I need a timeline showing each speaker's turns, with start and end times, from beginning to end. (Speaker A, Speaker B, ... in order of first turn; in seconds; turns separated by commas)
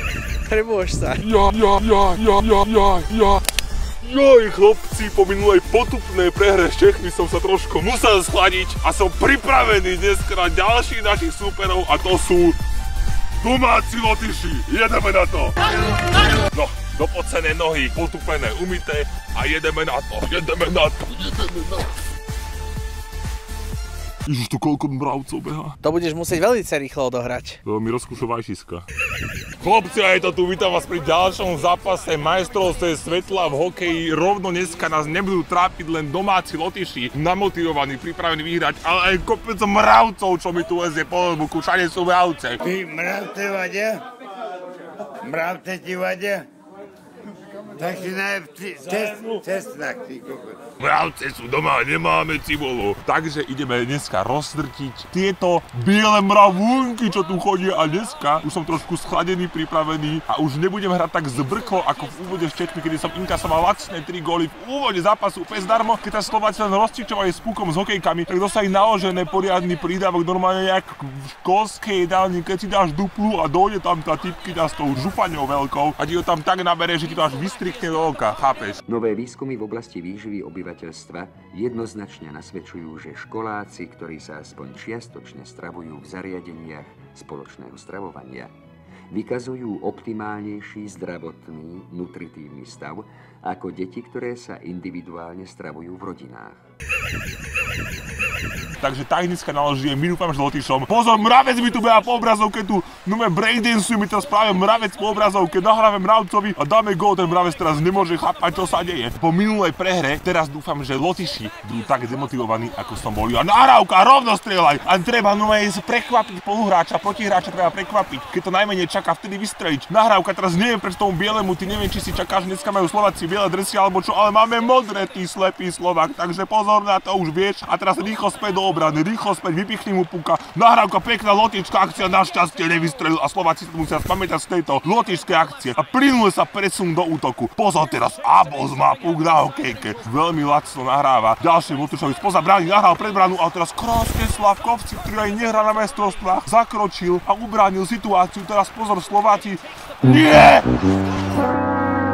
Speaker A: 0.5-1.2, Speaker B: 1.1-3.4, Speaker B: 4.0-12.6, Speaker B: 13.4-21.9, Speaker B: 24.2-25.8, Speaker A: 25.8-27.6, Speaker B: 27.6-28.9, Speaker B: 29.6-42.6, Speaker C: 42.6-44.1, Speaker C: 45.2-46.5, Speaker C: 47.8-50.6, Speaker B: 50.8-78.8, Speaker D: 78.9-88.5, Speaker D: 89.1-96.6, Speaker B: 98.8-150.9